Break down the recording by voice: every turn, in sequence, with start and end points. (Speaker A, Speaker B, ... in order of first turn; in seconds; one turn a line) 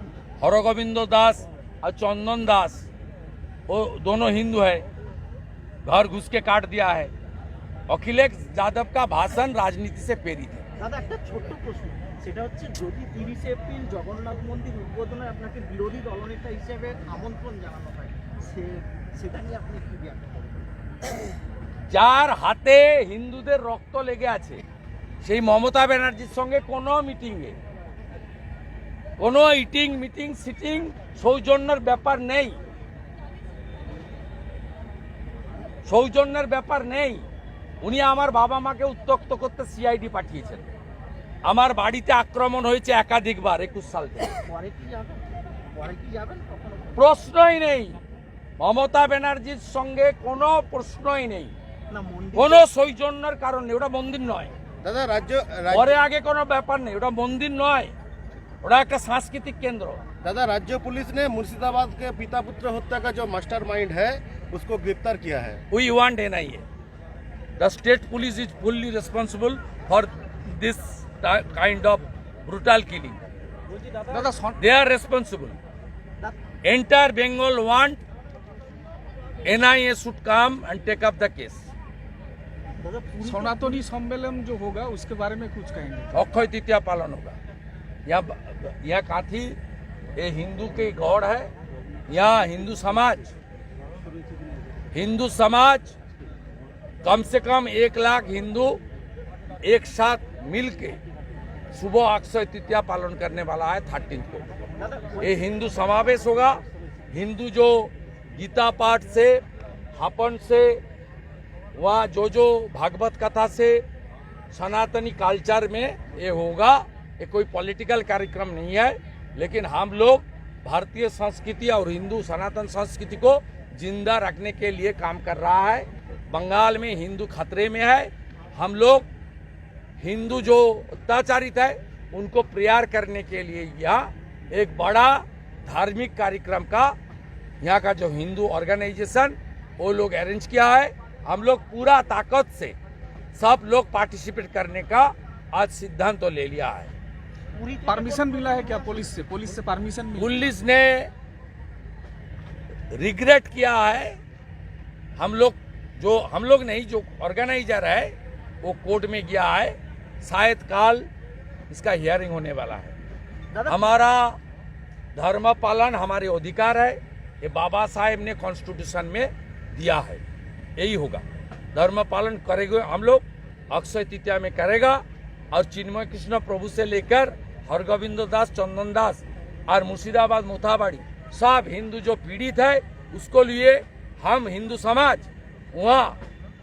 Speaker A: 0.4-2.9
Speaker A: 3.7-4.8
Speaker A: 5.8-7.1
Speaker A: 7.9-10.7
Speaker B: 10.8-20.4
Speaker A: 21.9-24.6
Speaker A: 25.2-27.5
Speaker A: 29.2-32.6
Speaker A: 35.9-37.2
Speaker A: 37.8-40.7
Speaker A: 41.5-44.4
Speaker B: 44.5-47.1
Speaker A: 47.0-48.0
Speaker A: 48.6-51.5
Speaker B: 51.9-52.6
Speaker A: 52.3-54.5
Speaker C: 54.8-56.0
Speaker A: 55.7-57.9
Speaker A: 58.6-60.0
Speaker C: 60.2-65.6
Speaker A: 65.7-66.6
Speaker A: 67.6-73.2
Speaker B: 73.7-74.3
Speaker D: 74.1-74.6
Speaker A: 74.6-75.6
Speaker A: 76.6-78.0
Speaker A: 79.4-81.7
Speaker B: 82.8-83.9
Speaker D: 83.2-86.1
Speaker A: 86.1-87.3
Speaker A: 88.0-89.6
Speaker A: 90.2-91.5
Speaker A: 92.1-93.3
Speaker A: 94.9-95.9
Speaker A: 97.0-98.8
Speaker A: 99.6-101.0
Speaker A: 101.7-104.5
Speaker B: 104.8-105.3
Speaker A: 105.2-106.6
Speaker A: 107.1-109.4
Speaker A: 110.0-110.8
Speaker A: 111.7-113.8
Speaker A: 114.5-129.1
Speaker A: 130.0-136.9
Speaker A: 137.6-142.7
Speaker A: 143.3-146.9
Speaker B: 147.5-149.1
Speaker D: 147.8-150.5
Speaker A: 150.2-151.1
Speaker A: 152.9-154.2
Speaker A: 155.2-161.1
Speaker A: 161.7-162.9
Speaker B: 163.5-163.9
Speaker A: 163.7-164.4
Speaker A: 165.1-170.2
Speaker A: 170.8-186.2